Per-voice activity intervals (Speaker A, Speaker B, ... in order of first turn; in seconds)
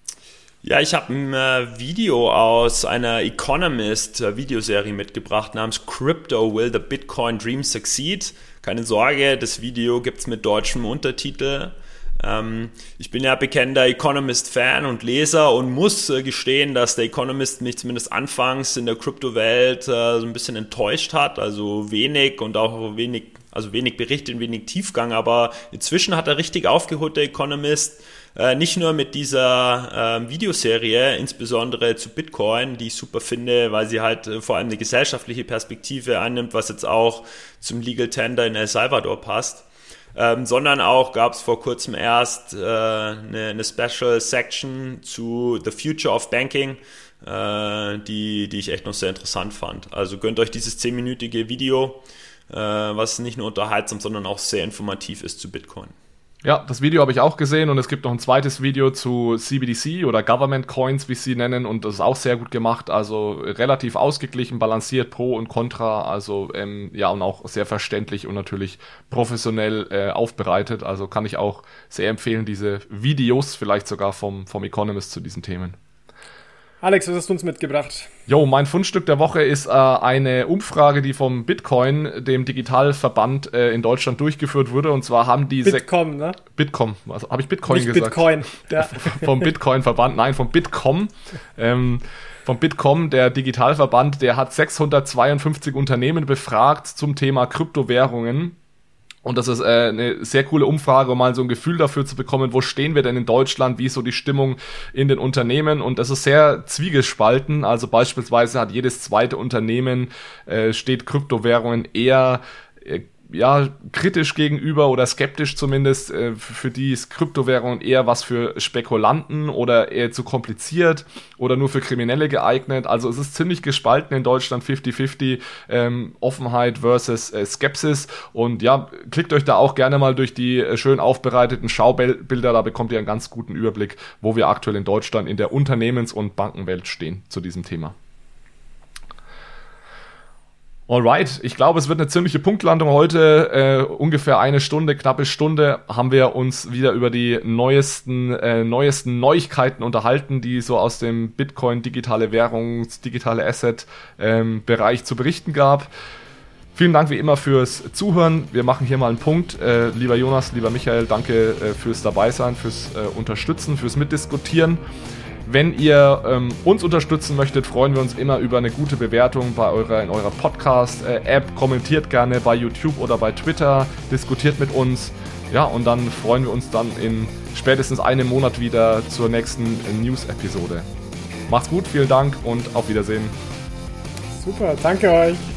Speaker A: 0.6-55.9
Speaker B: 56.4-75.8, 78.3-85.8, 86.4-98.5, 99.2-137.9, 140.9-155.9, 156.7-164.8, 165.4-180.8, 181.5-183.3
Speaker C: 76.8-78.1, 85.6-86.4, 87.7-89.5, 184.3-185.4